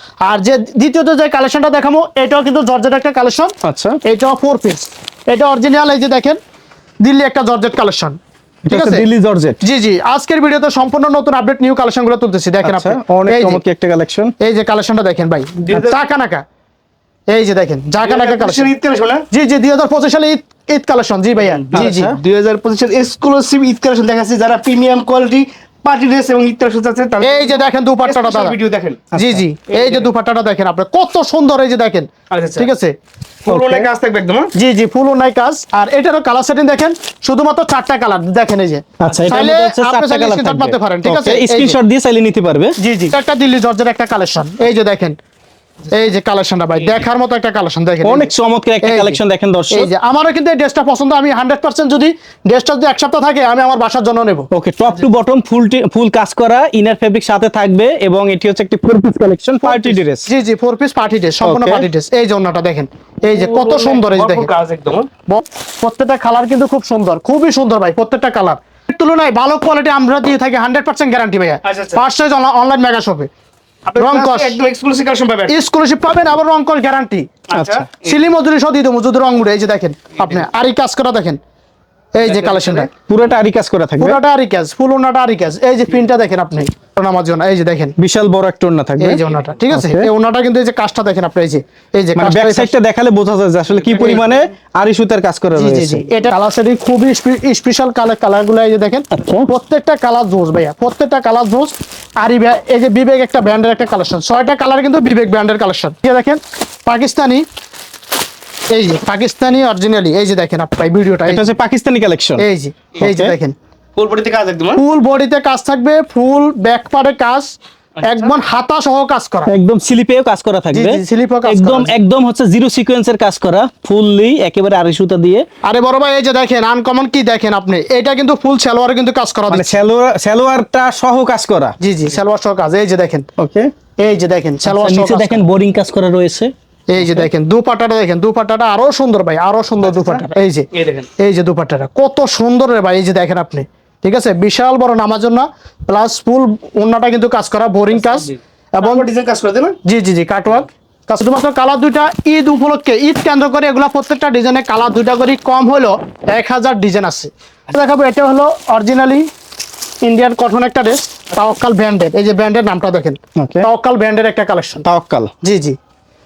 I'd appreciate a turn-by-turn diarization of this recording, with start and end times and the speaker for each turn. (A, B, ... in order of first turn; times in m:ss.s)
0:00.2-0:06.4 A
0:03.6-0:04.0 B
0:07.0-0:08.2 A
0:08.7-0:09.6 B
0:08.7-0:09.1 A
0:09.6-0:13.6 A
0:12.6-0:14.3 B
0:14.4-0:16.4 A
0:15.7-0:16.0 C
0:17.3-0:18.7 A
0:18.0-0:19.3 C
0:19.3-0:22.1 A
0:21.4-0:29.1 C
0:21.7-0:22.2 B
0:27.2-0:28.6 A
0:29.1-0:29.4 B
0:29.1-0:32.9 A
0:29.7-0:30.1 C
0:32.3-0:32.7 C
0:33.5-0:34.5 C
0:33.5-0:33.9 B
0:34.6-0:41.8 A
0:39.0-0:42.8 B
0:42.8-0:45.2 A
0:45.9-0:48.3 A
0:48.0-0:49.9 B
0:48.8-0:49.2 A
0:49.7-0:54.5 A
0:54.5-1:00.3 B
0:59.6-1:04.5 A
1:01.4-1:01.8 B
1:03.3-1:05.1 C
1:05.3-1:13.3 A
1:11.6-1:12.0 C
1:13.9-1:15.5 C
1:14.0-1:14.6 A
1:15.5-1:17.4 A
1:17.5-1:18.2 C
1:17.5-1:17.9 B
1:18.0-1:21.4 A
1:22.1-1:22.9 A
1:22.2-1:22.9 C
1:23.1-1:24.2 B
1:24.0-1:28.0 A
1:28.0-1:30.1 B
1:29.0-1:32.7 A
1:32.2-1:36.0 B
1:34.0-1:34.2 A
1:35.6-1:47.4 A
1:39.1-1:39.5 B
1:48.7-1:51.4 A
1:51.3-1:52.5 B
1:52.4-1:53.6 A
1:53.0-1:53.3 B
1:54.0-1:54.8 C
1:54.8-1:59.5 A
1:59.5-2:05.5 B
2:00.7-2:02.0 A
2:05.6-2:09.8 A
2:09.5-2:11.8 B
2:11.8-2:13.3 A
2:13.4-2:13.7 B
2:14.0-2:15.4 A
2:14.6-2:17.3 B
2:16.9-2:29.1 A
2:20.7-2:21.1 C
2:28.8-2:29.8 C
2:29.8-2:39.3 A
2:40.0-2:44.9 A
2:43.4-2:43.7 B
2:44.8-2:45.3 B
2:45.4-2:45.8 A